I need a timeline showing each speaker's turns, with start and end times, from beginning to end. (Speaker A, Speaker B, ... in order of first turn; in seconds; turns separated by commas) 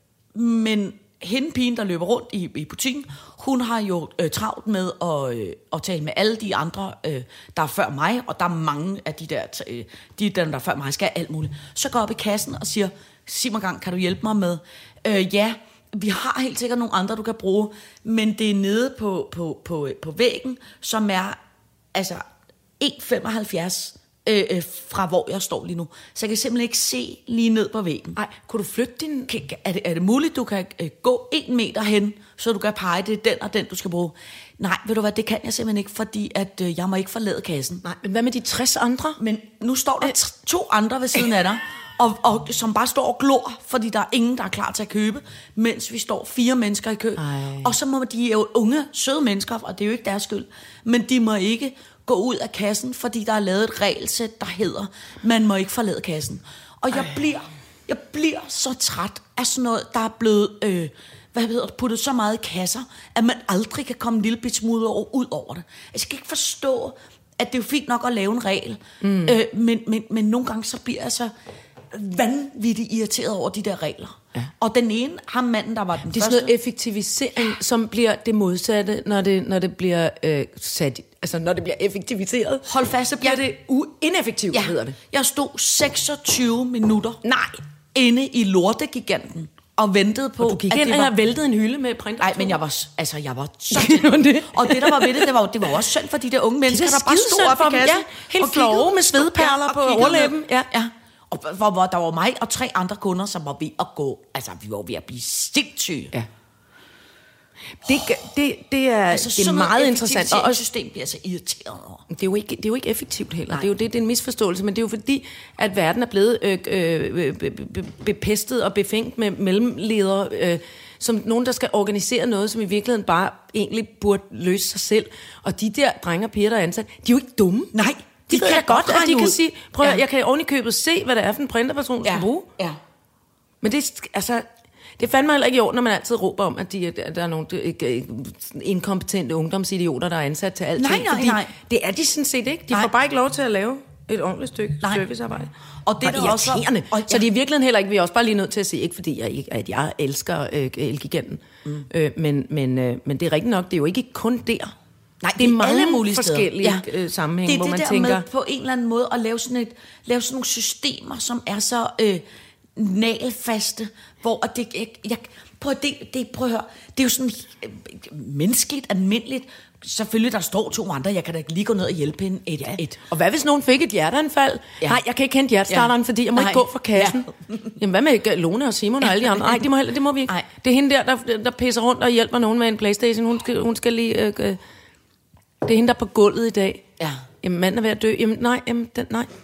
Speaker A: 0.3-21.4, Speaker A: 21.9-22.2, Speaker A: 22.8-28.2, Speaker B: 28.1-29.3, Speaker A: 29.3-37.8, Speaker B: 37.8-39.2, Speaker A: 39.2-71.3, Speaker B: 47.2-47.7, Speaker B: 69.0-69.4, Speaker A: 71.9-76.5, Speaker B: 76.1-85.0, Speaker A: 82.7-83.4, Speaker A: 84.5-87.2, Speaker B: 87.2-87.6, Speaker A: 87.9-91.1, Speaker B: 90.4-92.6, Speaker A: 92.2-106.1, Speaker B: 93.7-95.3, Speaker B: 96.7-100.7, Speaker B: 107.8-110.6, Speaker A: 109.1-112.0, Speaker B: 112.1-127.7, Speaker A: 127.7-130.0, Speaker B: 128.3-132.5, Speaker A: 132.0-132.8, Speaker B: 133.6-134.4, Speaker B: 135.0-154.7, Speaker A: 140.8-141.5, Speaker A: 144.8-145.1, Speaker A: 145.8-147.2, Speaker A: 155.2-156.8, Speaker B: 155.4-158.2, Speaker A: 157.4-162.2, Speaker A: 162.8-173.0, Speaker B: 172.6-184.6, Speaker A: 175.7-177.7, Speaker A: 179.2-179.6, Speaker B: 185.6-186.8, Speaker B: 187.4-189.3